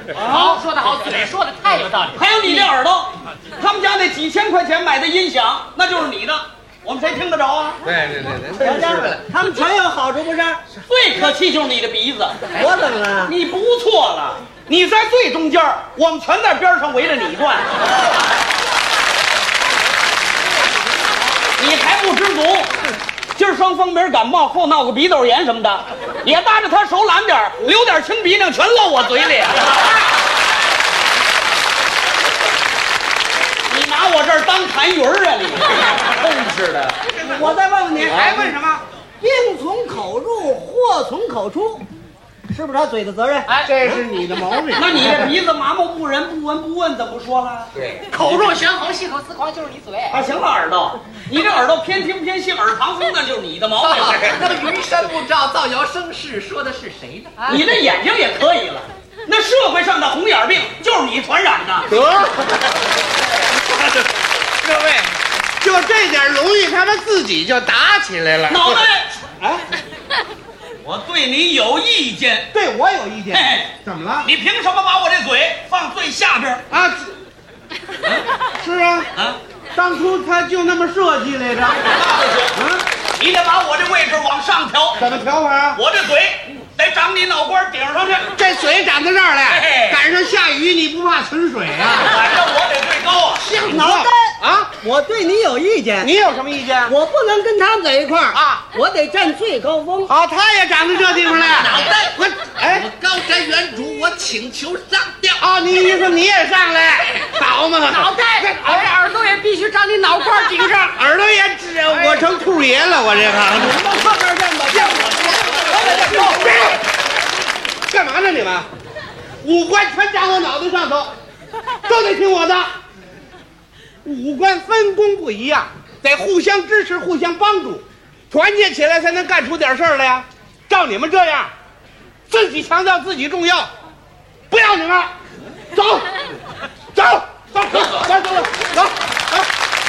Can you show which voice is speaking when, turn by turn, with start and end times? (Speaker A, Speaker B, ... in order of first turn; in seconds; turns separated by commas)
Speaker A: 0.1-2.7, Speaker B: 2.1-7.8, Speaker C: 7.8-9.2, Speaker D: 8.6-10.6, Speaker B: 10.8-12.5, Speaker D: 12.5-13.3, Speaker B: 13.2-17.7, Speaker B: 21.6-22.7, Speaker B: 23.4-29.6, Speaker B: 33.7-37.0, Speaker D: 37.2-38.4, Speaker C: 38.0-38.8, Speaker B: 38.1-38.5, Speaker D: 39.2-41.9, Speaker D: 42.5-43.5, Speaker A: 43.5-43.9, Speaker C: 43.6-45.1, Speaker B: 44.7-47.7, Speaker C: 47.8-48.2, Speaker A: 48.1-50.2, Speaker B: 50.1-54.4, Speaker E: 53.8-57.4, Speaker B: 57.5-61.9, Speaker C: 61.9-62.5, Speaker C: 64.6-65.0, Speaker C: 65.6-68.9, Speaker B: 68.5-69.0, Speaker B: 70.8-72.5, Speaker C: 72.5-74.3, Speaker B: 73.3-76.6, Speaker C: 76.7-77.1, Speaker C: 78.6-79.1, Speaker C: 79.7-81.9, Speaker B: 81.9-82.6, Speaker C: 82.5-82.8, Speaker B: 83.2-85.0, Speaker C: 85.0-85.8, Speaker B: 85.7-88.3, Speaker C: 88.3-92.1, Speaker B: 89.5-90.0, Speaker B: 92.0-93.5, Speaker C: 93.4-94.7, Speaker D: 93.6-96.1, Speaker C: 96.0-96.9, Speaker D: 96.9-100.1, Speaker C: 98.3-98.6, Speaker C: 100.1-102.9, Speaker E: 101.3-105.4, Speaker C: 105.4-108.9, Speaker A: 107.9-111.0, Speaker C: 110.9-113.8, Speaker B: 113.5-116.7, Speaker C: 114.7-116.8, Speaker C: 117.9-118.7, Speaker C: 119.4-121.1, Speaker C: 121.8-122.7, Speaker C: 124.0-131.5, Speaker C: 132.3-133.7, Speaker C: 134.5-135.1, Speaker C: 135.7-136.2, Speaker C: 136.9-139.5